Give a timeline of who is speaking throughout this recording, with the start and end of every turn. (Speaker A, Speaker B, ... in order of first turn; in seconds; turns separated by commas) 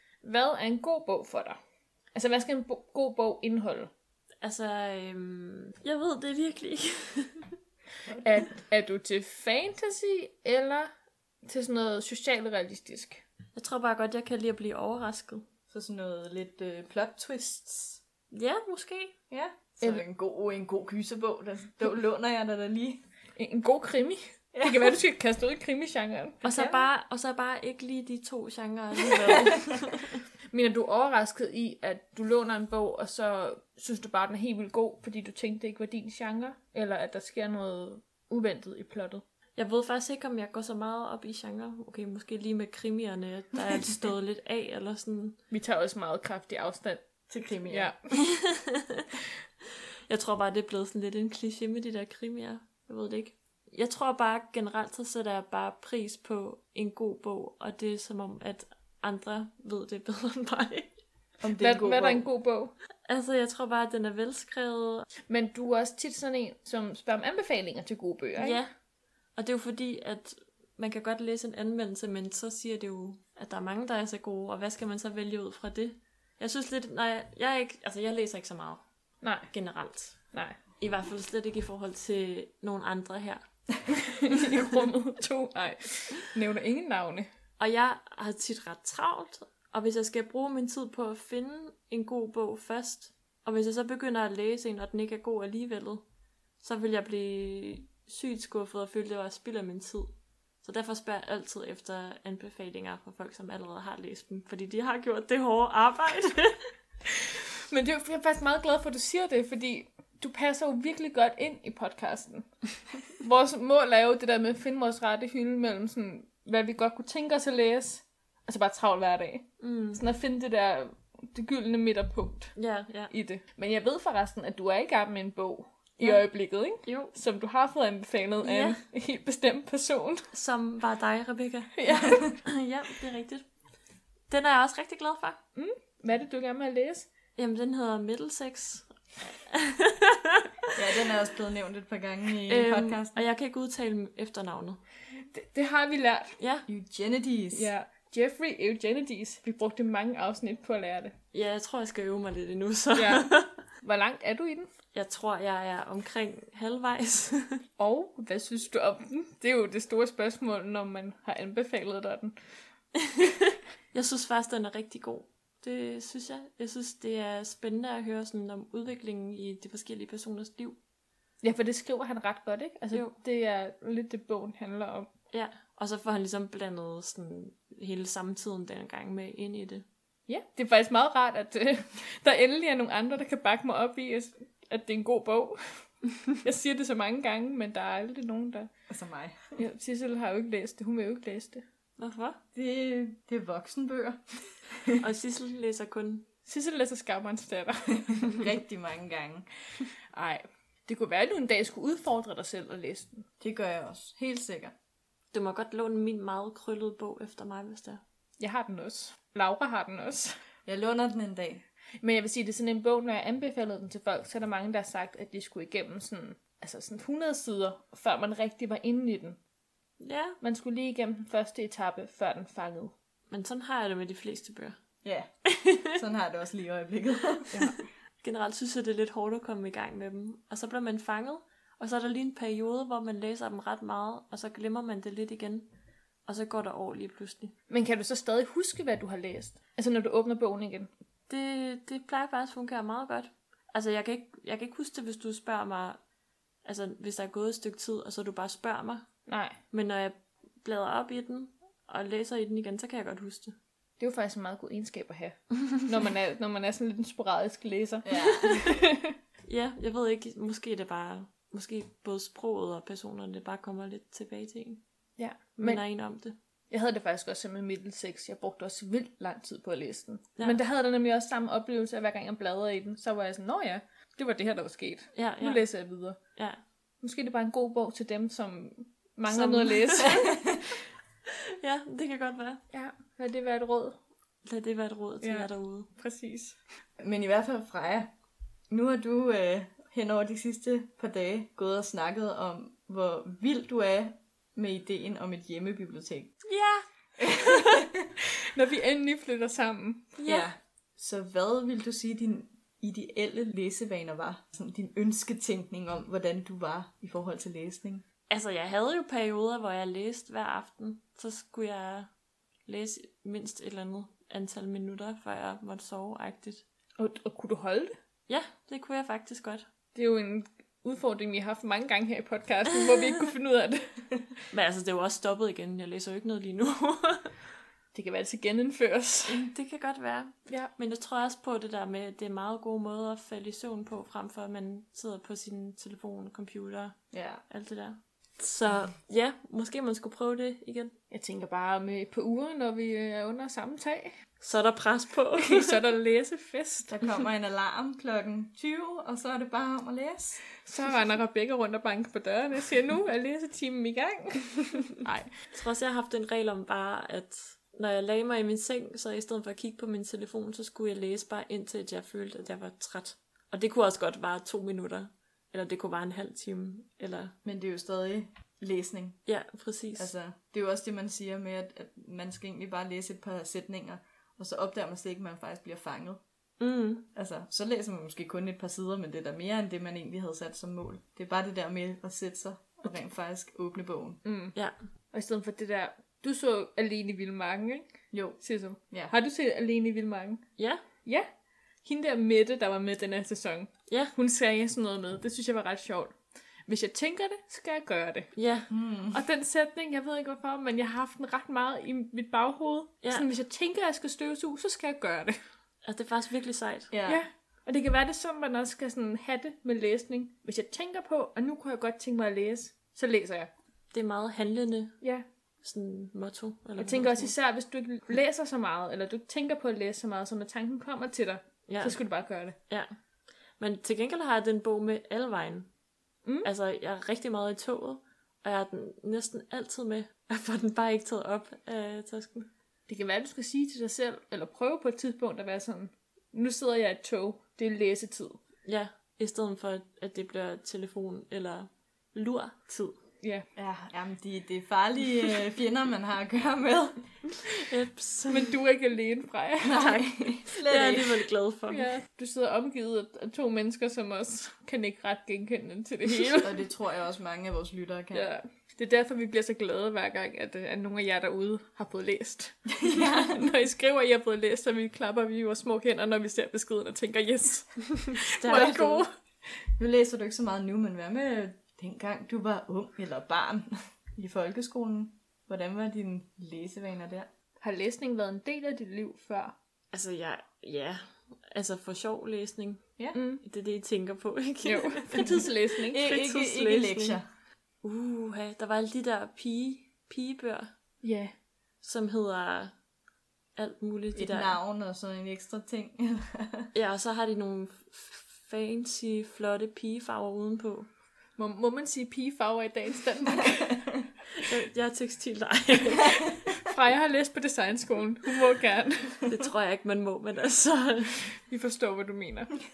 Speaker A: 0.2-1.6, Speaker A: 2.1-3.9, Speaker B: 4.4-7.5, Speaker C: 8.1-8.4, Speaker A: 8.2-10.9, Speaker A: 11.4-13.2, Speaker B: 13.5-15.4, Speaker C: 15.7-18.0, Speaker B: 18.3-19.1, Speaker C: 19.3-23.0, Speaker A: 23.4-26.4, Speaker C: 24.5-25.0, Speaker B: 26.4-30.2, Speaker C: 26.5-26.9, Speaker A: 30.5-39.2, Speaker B: 39.5-45.4, Speaker A: 45.5-47.0, Speaker C: 47.3-47.9, Speaker A: 47.7-48.0, Speaker B: 48.1-49.1, Speaker B: 50.1-60.9, Speaker C: 61.4-62.2, Speaker A: 61.6-62.7, Speaker B: 63.0-65.1, Speaker A: 65.3-68.6, Speaker B: 68.4-68.7, Speaker B: 69.3-78.8, Speaker A: 79.2-79.5, Speaker B: 79.5-80.2, Speaker B: 80.8-83.4, Speaker A: 84.0-87.3, Speaker B: 87.6-96.0, Speaker B: 96.6-106.6, Speaker A: 107.7-122.5, Speaker B: 119.6-120.0, Speaker B: 122.5-123.1, Speaker A: 123.1-130.3, Speaker B: 126.8-127.1, Speaker B: 128.4-128.8, Speaker B: 130.3-133.4, Speaker A: 131.8-132.3, Speaker B: 134.3-135.4, Speaker A: 135.6-137.1, Speaker B: 137.3-140.7, Speaker C: 140.7-143.2, Speaker B: 142.4-144.8, Speaker A: 145.3-146.4, Speaker B: 146.4-146.7, Speaker C: 146.7-147.7, Speaker A: 147.5-151.1, Speaker B: 151.3-153.5, Speaker A: 152.9-153.3, Speaker A: 153.8-154.7, Speaker B: 154.9-157.6, Speaker A: 157.8-162.3, Speaker B: 163.0-170.8, Speaker A: 171.4-175.1, Speaker B: 175.3-179.8, Speaker A: 180.3-188.7, Speaker C: 188.9-189.6, Speaker A: 189.6-191.6, Speaker B: 192.0-192.4, Speaker C: 192.5-195.0, Speaker B: 195.0-196.2, Speaker A: 196.4-198.4, Speaker C: 198.2-199.5, Speaker A: 200.1-203.3, Speaker C: 203.4-204.7, Speaker B: 205.3-208.0, Speaker A: 208.4-210.3, Speaker C: 210.7-211.6, Speaker A: 212.0-219.4, Speaker B: 220.0-220.4, Speaker A: 220.4-222.9, Speaker B: 223.3-224.8, Speaker C: 225.0-225.3, Speaker B: 225.5-225.9, Speaker C: 225.9-227.7, Speaker A: 227.5-227.8, Speaker B: 228.2-235.7, Speaker B: 236.2-237.5, Speaker A: 237.7-240.9, Speaker B: 241.3-246.0, Speaker B: 246.6-249.1, Speaker A: 249.3-249.6, Speaker B: 249.7-253.5, Speaker A: 254.0-259.1, Speaker C: 258.0-258.6, Speaker B: 259.5-264.8, Speaker A: 265.2-265.8, Speaker B: 265.6-266.4, Speaker A: 266.7-276.2, Speaker B: 275.1-275.6, Speaker A: 277.0-280.6, Speaker B: 279.3-280.2, Speaker C: 280.0-280.6, Speaker B: 281.6-282.6, Speaker A: 282.7-284.0, Speaker B: 284.4-285.9, Speaker A: 285.2-286.6, Speaker C: 287.0-288.1, Speaker C: 288.7-296.3, Speaker B: 296.4-297.9, Speaker C: 297.2-298.1, Speaker A: 298.5-300.1, Speaker B: 300.2-300.5, Speaker C: 300.2-308.0, Speaker B: 308.3-312.1, Speaker B: 312.6-316.6, Speaker A: 317.0-317.9, Speaker B: 318.3-319.6, Speaker A: 319.9-324.0, Speaker B: 324.5-327.4, Speaker A: 327.9-329.4, Speaker B: 329.3-337.0, Speaker C: 337.1-337.4, Speaker B: 337.5-340.9, Speaker A: 341.1-344.1, Speaker B: 344.4-345.8, Speaker A: 345.4-346.9, Speaker C: 346.9-350.4, Speaker A: 350.6-355.3, Speaker B: 355.5-367.3, Speaker C: 367.4-369.2, Speaker B: 369.2-370.1, Speaker C: 369.9-376.2, Speaker B: 376.6-377.1, Speaker C: 377.1-384.2, Speaker A: 384.2-384.5, Speaker A: 385.1-387.9, Speaker C: 388.1-389.1, Speaker A: 388.4-390.4, Speaker B: 390.6-390.8, Speaker A: 391.8-396.1, Speaker B: 393.9-394.1, Speaker A: 396.7-398.3, Speaker B: 398.3-398.7, Speaker C: 398.7-399.2, Speaker A: 399.1-405.4, Speaker B: 405.8-406.9, Speaker C: 406.9-407.2, Speaker A: 407.1-413.5, Speaker B: 413.9-415.0, Speaker B: 415.6-417.3, Speaker A: 416.8-422.6, Speaker B: 421.7-422.0, Speaker B: 423.6-425.7, Speaker B: 426.4-432.5, Speaker A: 432.9-438.4, Speaker B: 438.6-443.0, Speaker C: 443.6-447.0, Speaker B: 447.4-448.5, Speaker A: 448.3-450.0, Speaker C: 449.6-451.3, Speaker B: 450.6-451.9, Speaker A: 451.7-456.6, Speaker C: 456.4-458.3, Speaker A: 458.1-469.1, Speaker C: 462.8-463.5, Speaker B: 468.1-469.0, Speaker C: 469.8-477.3, Speaker A: 477.6-479.5, Speaker B: 479.9-482.8, Speaker A: 483.1-483.4, Speaker B: 483.4-487.1, Speaker A: 484.6-486.3, Speaker C: 485.9-487.2, Speaker B: 487.8-490.7, Speaker A: 491.0-491.3, Speaker B: 491.8-492.7, Speaker B: 493.6-494.6, Speaker C: 494.1-496.7, Speaker B: 496.7-500.9, Speaker A: 501.4-503.8, Speaker B: 504.4-506.2, Speaker A: 506.6-509.2, Speaker B: 509.3-511.3, Speaker A: 511.4-512.5